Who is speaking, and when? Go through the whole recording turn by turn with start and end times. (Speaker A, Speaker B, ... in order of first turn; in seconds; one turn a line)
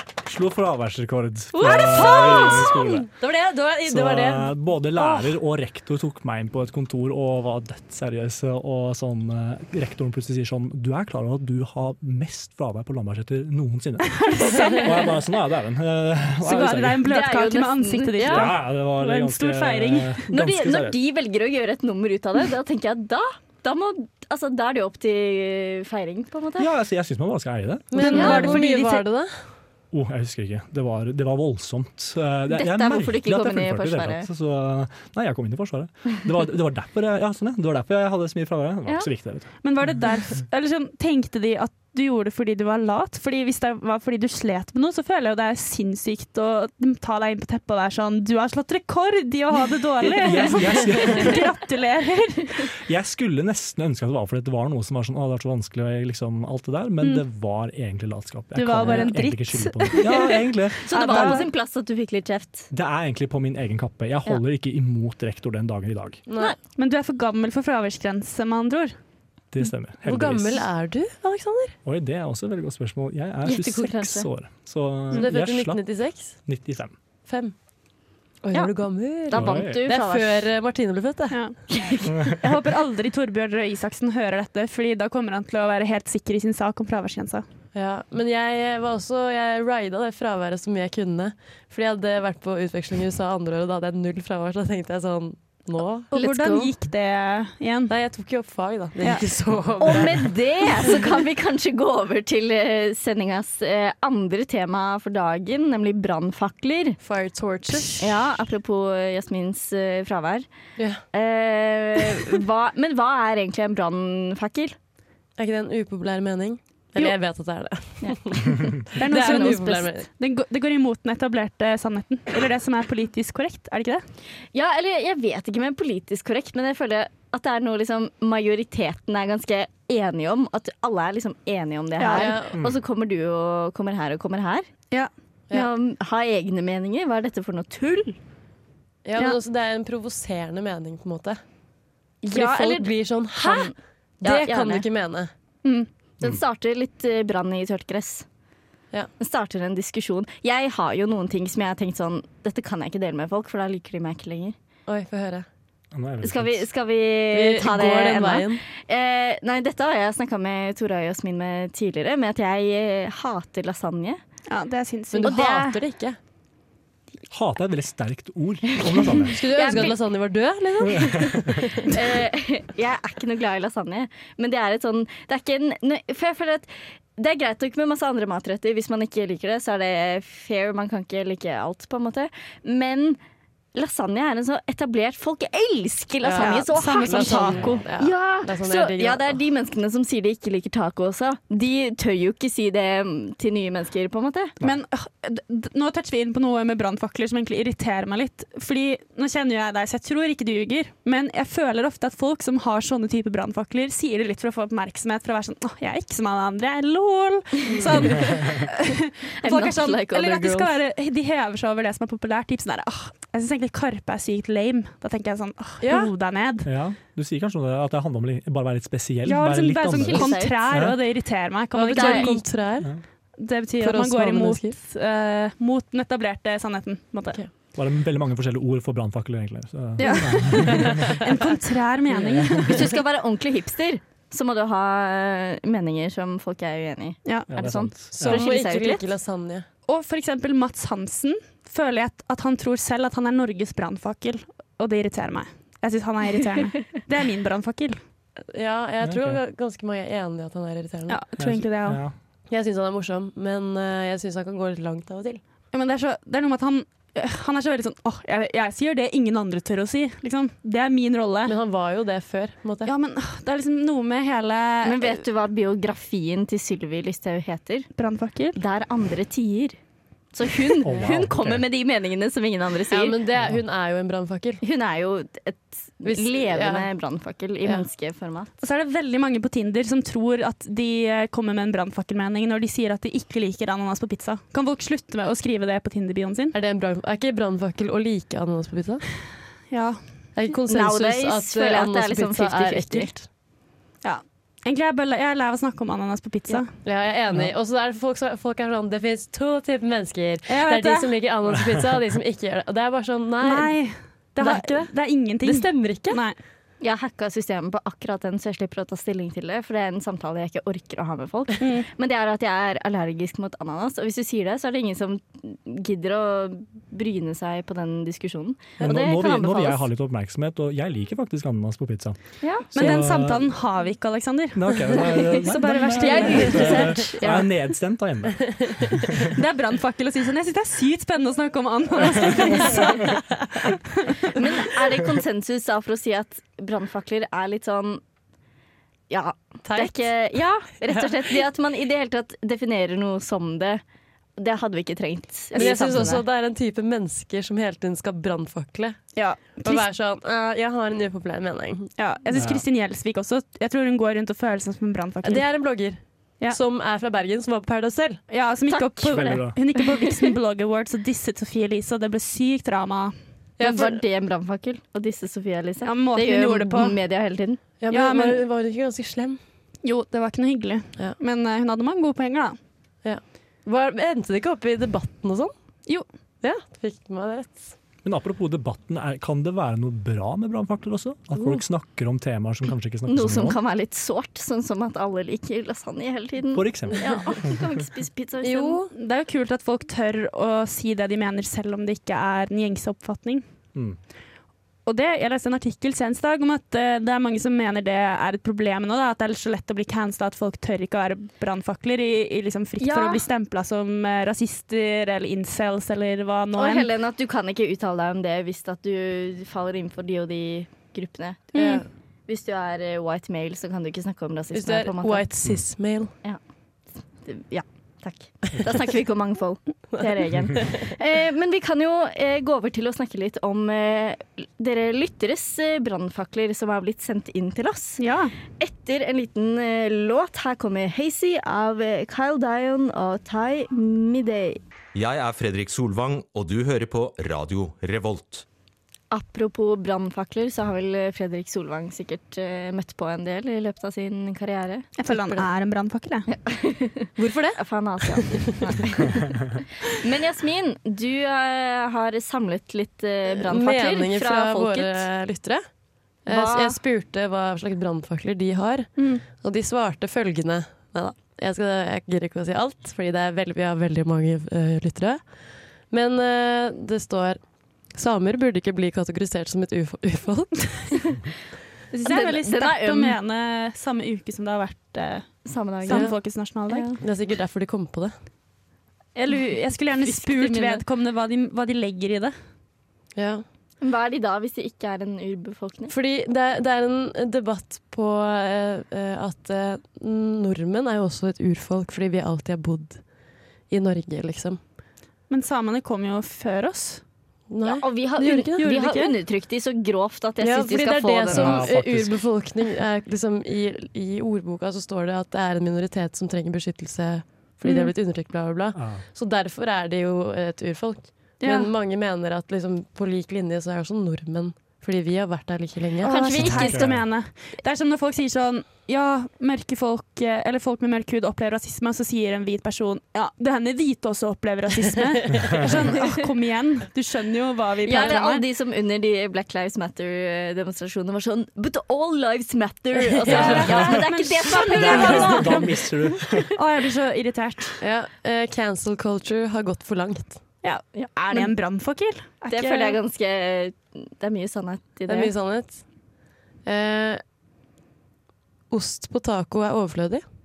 Speaker A: 0.2-3.1
Speaker B: 1.5-2.8
Speaker C: 2.2-4.5
Speaker A: 3.8-17.1
Speaker D: 14.1-15.2
Speaker D: 16.4-20.2
Speaker B: 17.1-18.5
Speaker A: 18.2-21.0
Speaker B: 20.3-26.7
Speaker A: 26.6-28.5
Speaker C: 27.9-29.3
Speaker D: 27.9-29.1
Speaker B: 28.1-28.5
Speaker A: 29.9-39.9
Speaker B: 32.5-34.3
Speaker D: 39.6-52.7
Speaker A: 50.2-51.5
Speaker A: 52.8-61.4
Speaker D: 58.5-60.4
Speaker B: 60.8-62.7
Speaker C: 61.1-61.4
Speaker A: 62.7-66.2
Speaker C: 66.3-66.5
Speaker D: 66.7-68.9
Speaker A: 69.5-70.7
Speaker C: 70.0-71.8
Speaker A: 71.8-76.9
Speaker B: 73.4-74.3
Speaker C: 75.1-76.4
Speaker C: 77.2-77.5
Speaker C: 78.4-81.4
Speaker B: 79.2-80.5
Speaker A: 79.3-79.8
Speaker D: 81.3-81.6
Speaker B: 81.7-82.1
Speaker D: 82.3-87.4
Speaker C: 87.7-96.1
Speaker B: 96.1-96.7
Speaker D: 96.1-97.9
Speaker C: 97.9-100.3
Speaker D: 99.0-99.3
Speaker B: 99.8-107.0
Speaker C: 107.0-108.2
Speaker B: 108.0-110.5
Speaker C: 110.8-111.0
Speaker B: 111.1-114.8
Speaker C: 115.4-120.1
Speaker B: 118.0-119.7
Speaker D: 119.0-124.0
Speaker B: 124.5-134.7
Speaker D: 132.0-132.3
Speaker C: 132.1-132.6
Speaker B: 135.5-138.2
Speaker C: 139.0-141.4
Speaker B: 142.2-144.9
Speaker C: 142.3-145.3
Speaker B: 146.2-148.2
Speaker B: 149.2-154.5
Speaker C: 154.9-155.4
Speaker A: 155.9-156.6
Speaker B: 156.2-164.2
Speaker C: 157.3-158.6
Speaker D: 164.5-165.4
Speaker C: 165.1-166.2
Speaker B: 165.2-165.8
Speaker A: 167.3-169.4
Speaker B: 169.3-170.0
Speaker C: 169.3-172.0
Speaker A: 170.9-171.4
Speaker B: 171.8-183.2
Speaker B: 183.7-194.5
Speaker C: 186.2-189.4
Speaker D: 186.4-187.8
Speaker D: 194.6-216.7
Speaker C: 207.7-208.1
Speaker A: 208.2-208.5
Speaker B: 209.4-210.8
Speaker C: 215.8-216.1
Speaker A: 216.6-221.0
Speaker D: 219.2-222.5
Speaker B: 219.9-220.6
Speaker C: 221.7-222.9
Speaker B: 221.9-222.3
Speaker D: 223.4-227.4
Speaker C: 223.8-224.7
Speaker A: 227.7-231.2
Speaker D: 230.0-232.9
Speaker C: 230.6-231.3
Speaker A: 232.1-232.8
Speaker B: 232.7-239.0
Speaker A: 237.5-238.4
Speaker C: 238.1-239.7
Speaker D: 239.9-248.0
Speaker C: 248.5-251.2
Speaker A: 249.0-249.4
Speaker D: 251.1-252.0
Speaker A: 251.4-252.2
Speaker C: 252.5-255.4
Speaker D: 255.7-261.6
Speaker C: 261.4-262.9
Speaker D: 262.8-265.2
Speaker B: 264.8-267.9
Speaker D: 267.9-268.6
Speaker B: 268.6-269.8
Speaker B: 270.3-273.2
Speaker A: 270.8-271.6
Speaker C: 272.9-274.6
Speaker B: 274.6-278.5
Speaker C: 276.0-276.9
Speaker D: 278.6-286.6
Speaker C: 286.5-289.0
Speaker D: 289.7-290.0
Speaker C: 290.4-293.2
Speaker B: 290.7-293.1
Speaker D: 294.0-296.7
Speaker C: 296.8-303.8
Speaker D: 300.5-301.1
Speaker D: 303.4-306.4
Speaker C: 304.4-306.2
Speaker B: 306.8-319.9
Speaker D: 311.6-311.9
Speaker A: 318.8-323.5
Speaker B: 322.4-323.0
Speaker D: 322.7-327.0
Speaker A: 324.5-329.3
Speaker B: 326.0-327.5
Speaker D: 329.3-334.1
Speaker B: 334.3-338.0
Speaker B: 339.1-343.8
Speaker C: 339.6-340.1
Speaker B: 344.4-346.2
Speaker C: 345.5-349.0
Speaker D: 349.1-349.9
Speaker C: 349.6-351.9
Speaker D: 352.0-355.5
Speaker A: 352.3-352.6
Speaker C: 355.2-358.2
Speaker D: 358.3-363.1
Speaker B: 358.7-359.3
Speaker A: 359.0-359.6
Speaker C: 363.6-364.0
Speaker B: 363.6-367.6
Speaker D: 365.8-366.9
Speaker C: 367.8-369.4
Speaker D: 367.9-368.4
Speaker D: 369.8-372.6
Speaker C: 373.0-375.5
Speaker C: 376.4-377.7
Speaker A: 378.0-383.6
Speaker B: 383.1-388.8
Speaker A: 386.5-387.5
Speaker C: 388.4-388.9
Speaker D: 388.9-393.4
Speaker A: 393.7-394.0
Speaker D: 394.9-406.9
Speaker B: 402.8-403.2
Speaker B: 406.6-415.2
Speaker D: 411.5-411.8
Speaker C: 411.6-411.8
Speaker C: 414.5-416.1
Speaker B: 417.2-428.0
Speaker D: 428.0-428.3
Speaker B: 428.6-434.6
Speaker E: 434.9-438.4
Speaker B: 439.1-445.4
Speaker D: 445.0-446.3
Speaker B: 446.3-455.1
Speaker C: 447.1-448.5
Speaker C: 453.4-455.6
Speaker C: 456.2-465.3
Speaker B: 456.3-456.8
Speaker D: 459.0-459.2
Speaker C: 465.9-471.1
Speaker D: 471.9-476.9
Speaker B: 472.0-473.2
Speaker B: 475.4-476.1
Speaker C: 475.9-476.2
Speaker B: 476.7-477.0
Speaker C: 477.0-478.1
Speaker D: 479.1-482.3
Speaker B: 480.0-480.8
Speaker C: 483.1-483.4
Speaker B: 483.8-485.9
Speaker C: 485.9-493.0
Speaker C: 493.7-494.6
Speaker D: 495.3-497.0
Speaker C: 497.5-498.7
Speaker B: 497.6-501.7
Speaker D: 498.6-499.1
Speaker C: 500.4-516.2
Speaker A: 501.3-502.3
Speaker A: 508.7-509.0
Speaker D: 511.4-511.7
Speaker D: 516.0-528.4
Speaker B: 516.0-516.9
Speaker A: 516.4-517.0
Speaker C: 525.3-525.6
Speaker B: 527.8-535.8
Speaker C: 533.1-533.7
Speaker D: 533.2-535.9
Speaker A: 533.4-534.0
Speaker A: 534.5-536.5
Speaker D: 536.5-537.8
Speaker C: 537.8-540.4
Speaker D: 540.6-543.0
Speaker B: 540.9-541.5
Speaker B: 542.5-545.3
Speaker C: 545.1-545.8
Speaker C: 546.6-547.2
Speaker C: 548.7-550.2